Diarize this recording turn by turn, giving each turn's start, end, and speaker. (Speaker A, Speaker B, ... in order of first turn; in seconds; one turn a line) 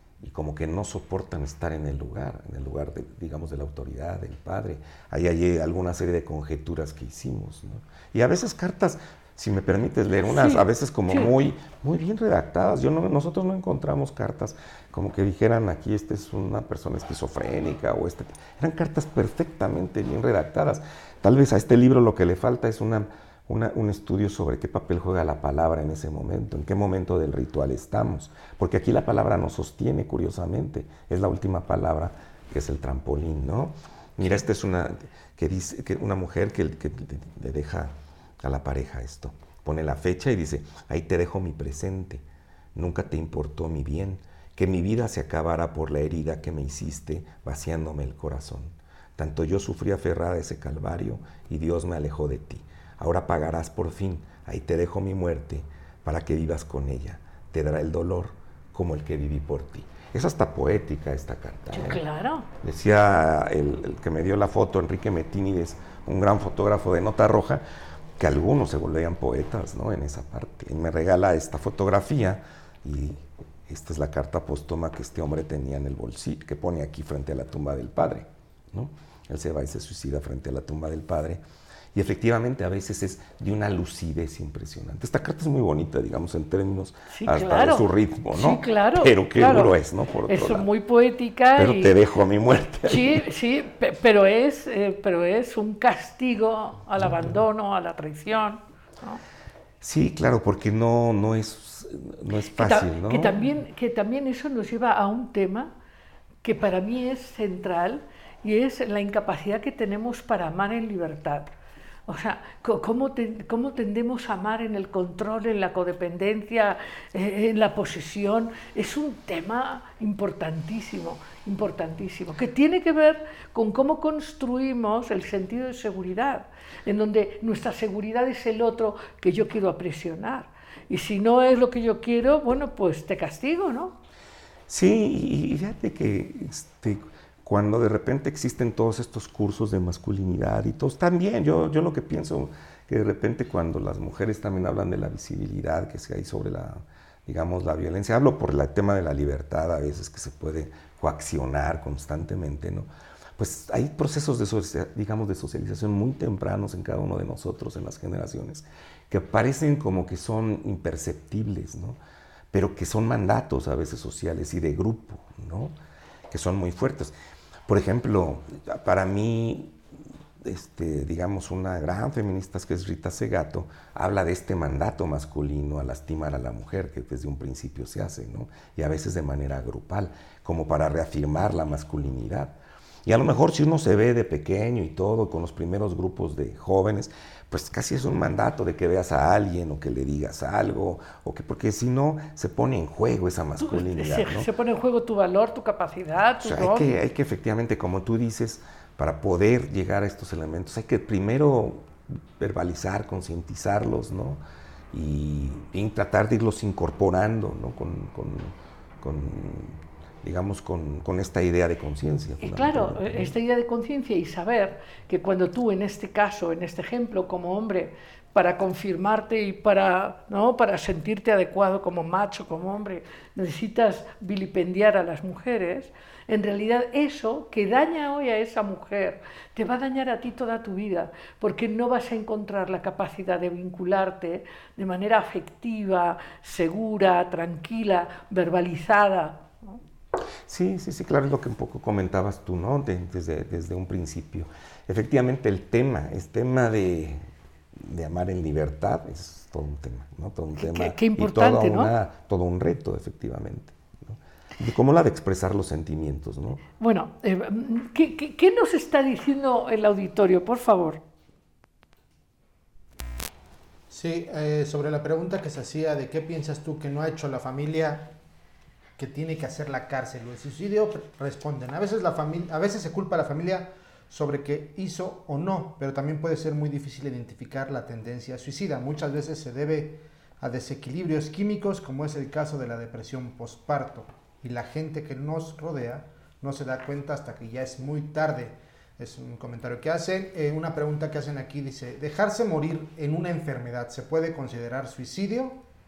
Speaker A: 0.2-42.2
Speaker B: 10.3-11.3
Speaker A: 42.8-62.0
Speaker B: 61.7-62.5
Speaker A: 62.6-67.6
Speaker A: 68.2-81.4
Speaker A: 81.9-90.7
Speaker B: 87.1-89.7
Speaker B: 90.3-91.9
Speaker A: 91.5-93.2
Speaker B: 92.9-99.2
Speaker A: 97.0-97.3
Speaker A: 99.8-103.4
Speaker B: 102.5-105.7
Speaker B: 106.4-111.5
Speaker B: 112.1-134.0
Speaker A: 134.7-162.0
Speaker A: 162.5-165.8
Speaker A: 166.3-167.1
Speaker A: 167.7-169.8
Speaker A: 170.4-194.5
Speaker B: 193.6-196.9
Speaker A: 196.4-204.4
Speaker A: 204.9-213.3
Speaker B: 212.4-239.7
Speaker A: 240.5-256.6
Speaker B: 250.6-251.9
Speaker B: 256.8-261.0
Speaker C: 263.9-268.1
Speaker C: 269.0-295.6